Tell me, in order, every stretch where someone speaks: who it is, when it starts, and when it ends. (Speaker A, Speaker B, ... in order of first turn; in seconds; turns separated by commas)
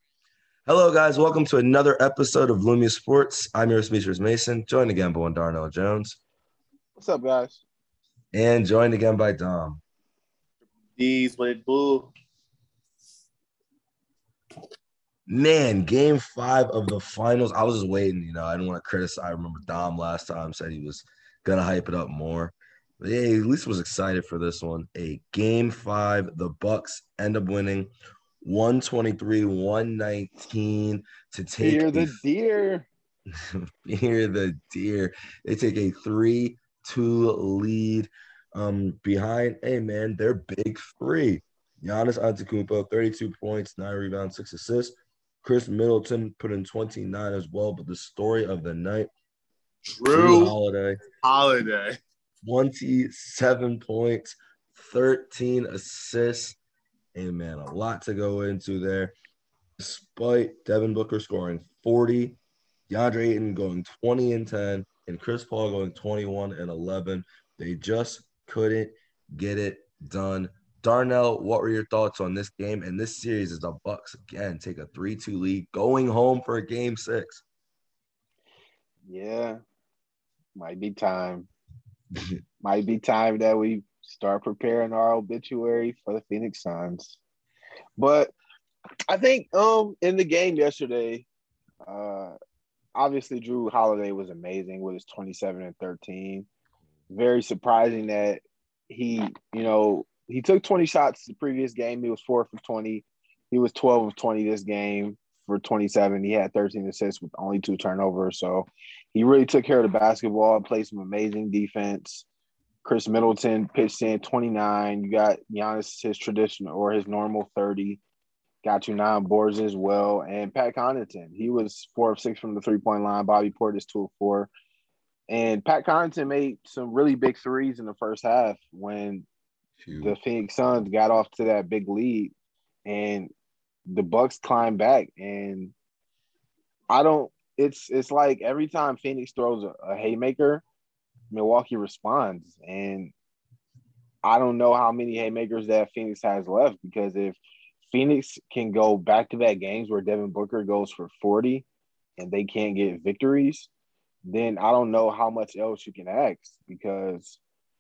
Speaker A: 0.7-6.2, Speaker B: 7.0-7.6, Speaker A: 8.3-9.8, Speaker C: 11.0-12.1, Speaker A: 15.3-32.2, Speaker B: 31.6-32.9, Speaker A: 33.3-49.1, Speaker C: 49.9-50.5, Speaker A: 50.1-51.0, Speaker C: 51.2-52.0, Speaker A: 52.4-56.6, Speaker A: 57.1-59.1, Speaker A: 59.8-62.4, Speaker A: 62.9-77.4, Speaker B: 79.1-79.6, Speaker B: 80.5-81.5, Speaker B: 82.6-87.2, Speaker B: 88.0-88.3, Speaker B: 89.1-91.3, Speaker B: 91.8-92.3, Speaker B: 93.0-96.5, Speaker B: 97.1-112.3, Speaker B: 112.8-118.0, Speaker B: 118.6-124.5, Speaker B: 125.3-129.3, Speaker A: 129.8-130.2, Speaker B: 130.0-132.3, Speaker B: 132.8-133.3, Speaker B: 133.9-135.7, Speaker B: 136.9-140.6, Speaker B: 141.3-143.1, Speaker B: 144.2-147.4, Speaker B: 147.9-151.7, Speaker B: 152.2-153.7, Speaker B: 154.3-157.4